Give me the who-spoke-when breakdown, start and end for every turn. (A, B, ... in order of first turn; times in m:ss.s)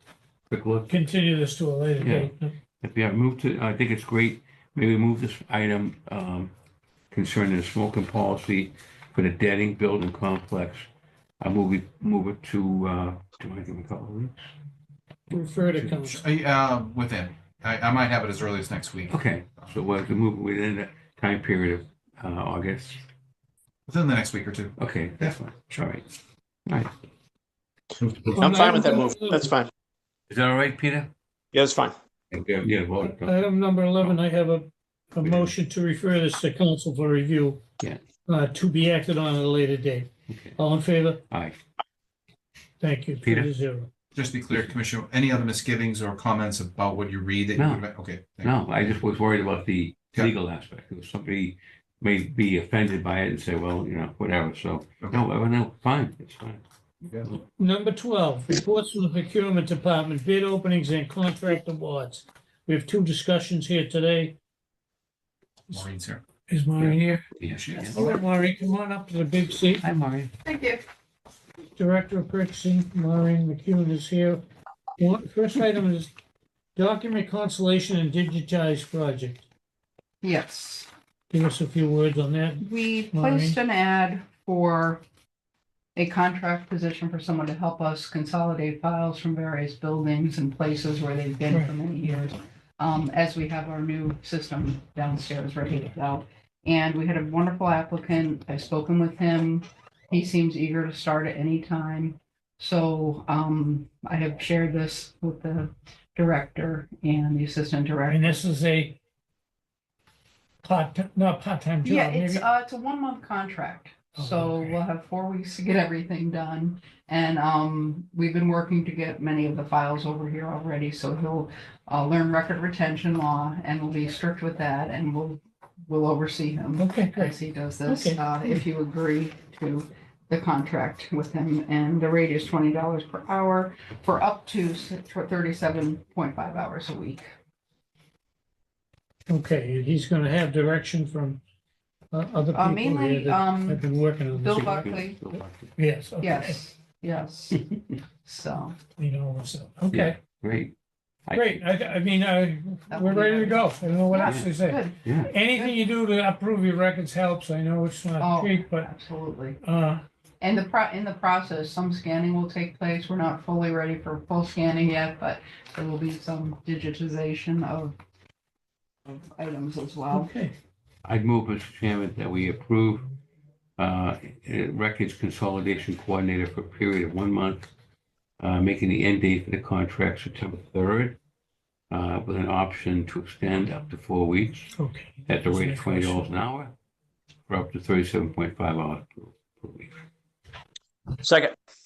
0:00.5-0:00.9 A
0:00.9-0:02.5 B
0:02.0-0:06.5 A
0:07.1-0:10.9 A
0:11.4-0:14.4 A
0:15.3-0:16.2 B
0:15.8-0:19.8 C
0:19.1-0:23.0 A
0:23.9-0:25.3 C
0:24.8-0:26.1 A
0:26.7-0:26.9 A
0:28.0-0:28.6 C
0:28.4-0:29.5 B
0:28.5-0:29.7 D
0:30.3-0:31.1 A
0:31.5-0:32.0 D
0:32.3-0:33.4 A
0:33.0-0:37.6 B
0:35.2-0:35.5 A
0:38.3-0:41.2 B
0:40.3-0:40.6 A
0:41.3-0:41.6 A
0:42.8-0:43.9 B
0:43.2-0:43.5 A
0:44.2-0:48.6 C
0:47.6-0:47.9 A
0:48.4-0:56.6 A
0:57.4-1:04.4 B
1:05.7-1:06.2 C
1:06.5-1:07.2 B
1:06.8-1:08.0 A
1:07.5-1:08.2 C
1:07.9-1:09.8 B
1:09.8-1:10.3 A
1:10.4-1:10.8 E
1:11.8-1:14.4 B
1:15.0-1:16.1 B
1:16.8-1:19.4 B
1:20.2-1:20.9 E
1:21.3-1:23.6 B
1:22.6-1:25.0 E
1:26.0-1:48.4 E
1:48.1-1:49.0 B
1:50.6-1:52.4 B
1:51.8-2:17.3 E
1:54.2-1:54.8 B
2:06.8-2:07.3 B
2:07.9-2:08.6 B
2:19.3-2:21.4 B
2:22.1-2:24.9 B
2:22.5-2:25.3 E
2:24.5-2:25.8 A
2:25.8-2:26.6 B
2:26.2-2:28.8 E
2:29.0-2:30.2 B
2:29.9-2:30.7 A
2:31.3-2:31.6 A
2:31.3-2:38.9 B
2:32.9-2:35.8 E
2:35.0-2:35.3 A
2:38.2-2:39.6 E
2:39.6-2:40.0 B
2:40.4-2:48.0 E
2:49.0-2:50.3 E
2:50.1-2:50.5 B
2:51.0-2:53.0 A
2:53.8-2:57.7 A
2:58.4-3:01.2 A
3:01.9-3:04.7 A
3:04.7-3:06.3 B
3:05.3-3:06.8 A
3:07.5-3:10.0 A
3:11.2-3:11.6 D